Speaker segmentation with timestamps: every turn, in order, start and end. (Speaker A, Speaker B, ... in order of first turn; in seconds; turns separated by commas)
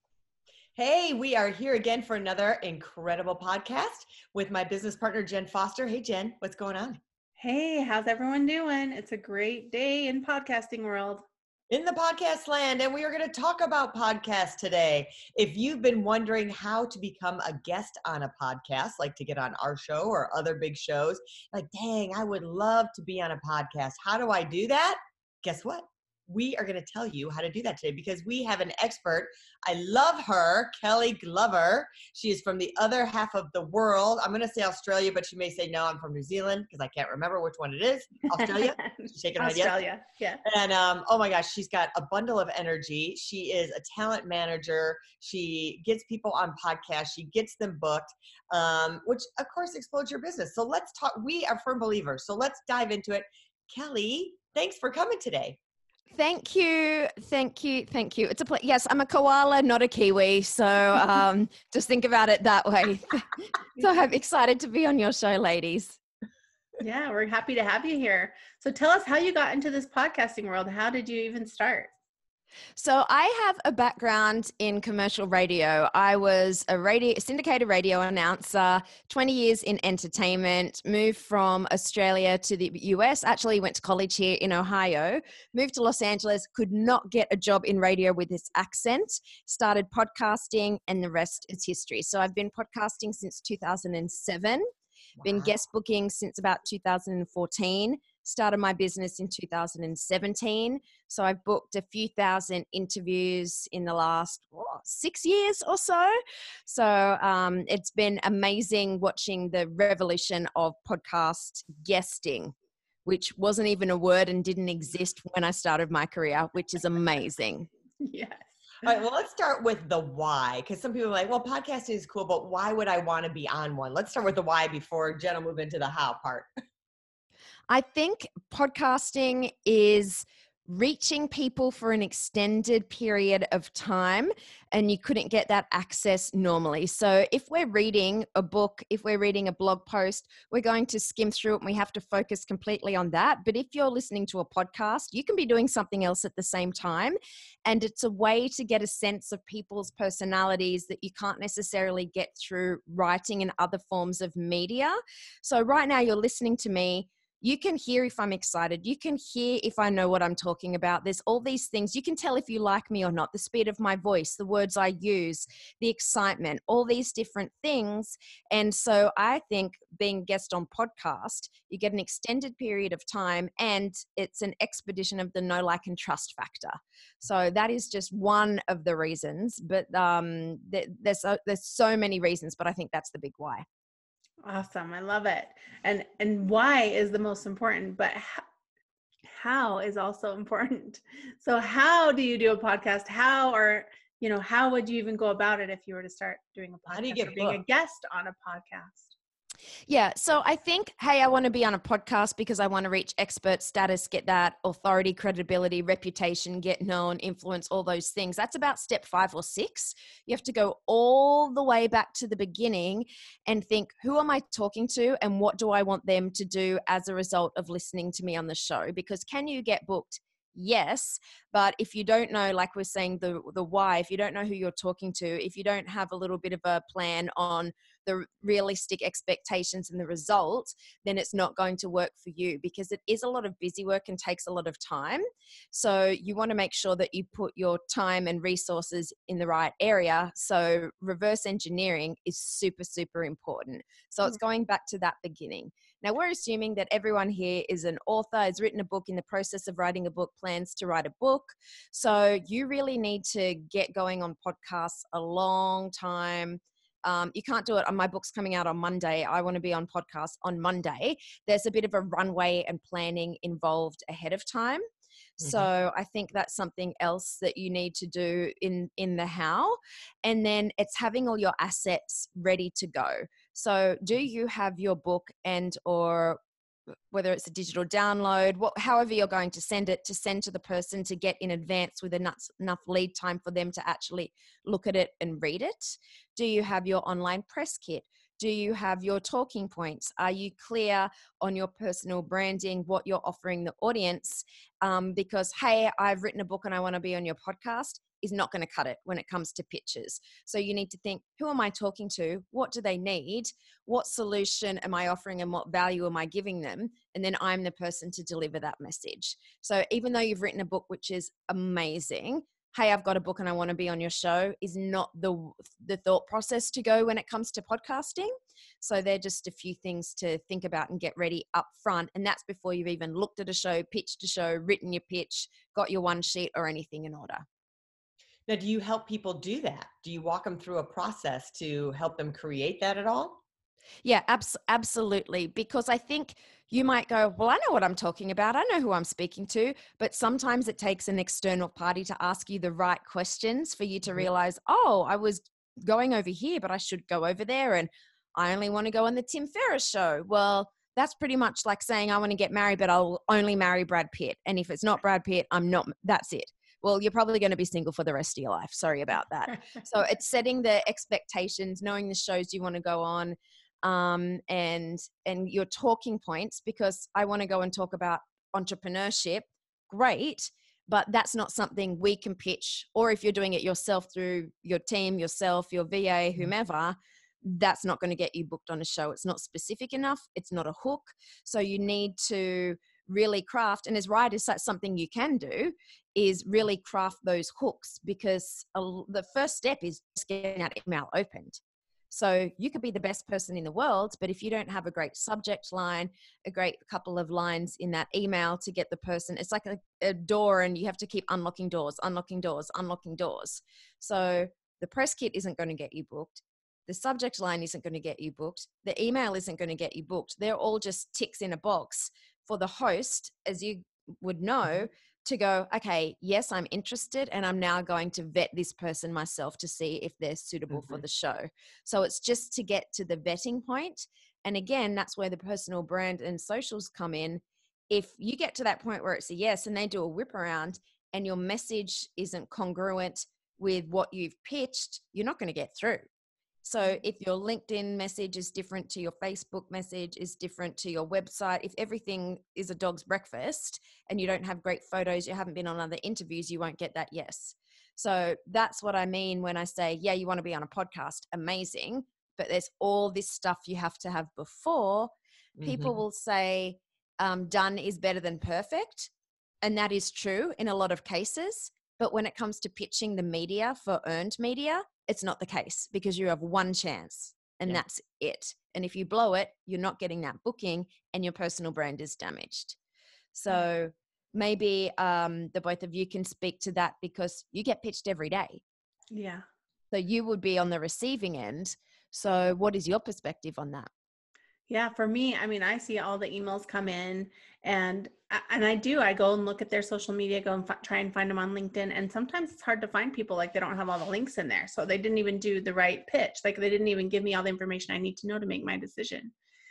Speaker A: 0.8-7.0, Speaker B: 7.4-11.2, Speaker A: 11.7-39.7, Speaker B: 38.4-40.4, Speaker A: 40.4-55.6, Speaker C: 56.1-66.0, Speaker B: 66.8-71.9, Speaker C: 72.8-94.7, Speaker A: 95.2-95.5, Speaker C: 95.2-112.5, Speaker C: 113.0-117.7, Speaker B: 118.0-118.4, Speaker A: 118.8-126.5, Speaker C: 127.7-183.6, Speaker B: 184.4-188.4, Speaker B: 189.2-199.1, Speaker A: 196.9-197.6, Speaker C: 199.9-264.8, Speaker C: 265.4-276.4, Speaker C: 277.1-327.4, Speaker A: 328.5-333.4, Speaker C: 334.0-391.6, Speaker C: 392.1-436.1, Speaker A: 420.7-421.0, Speaker C: 436.6-455.1, Speaker A: 455.6-456.0, Speaker C: 455.6-459.1, Speaker C: 459.6-472.8, Speaker C: 473.3-478.6, Speaker B: 479.1-479.4, Speaker C: 479.9-483.9, Speaker B: 484.7-499.3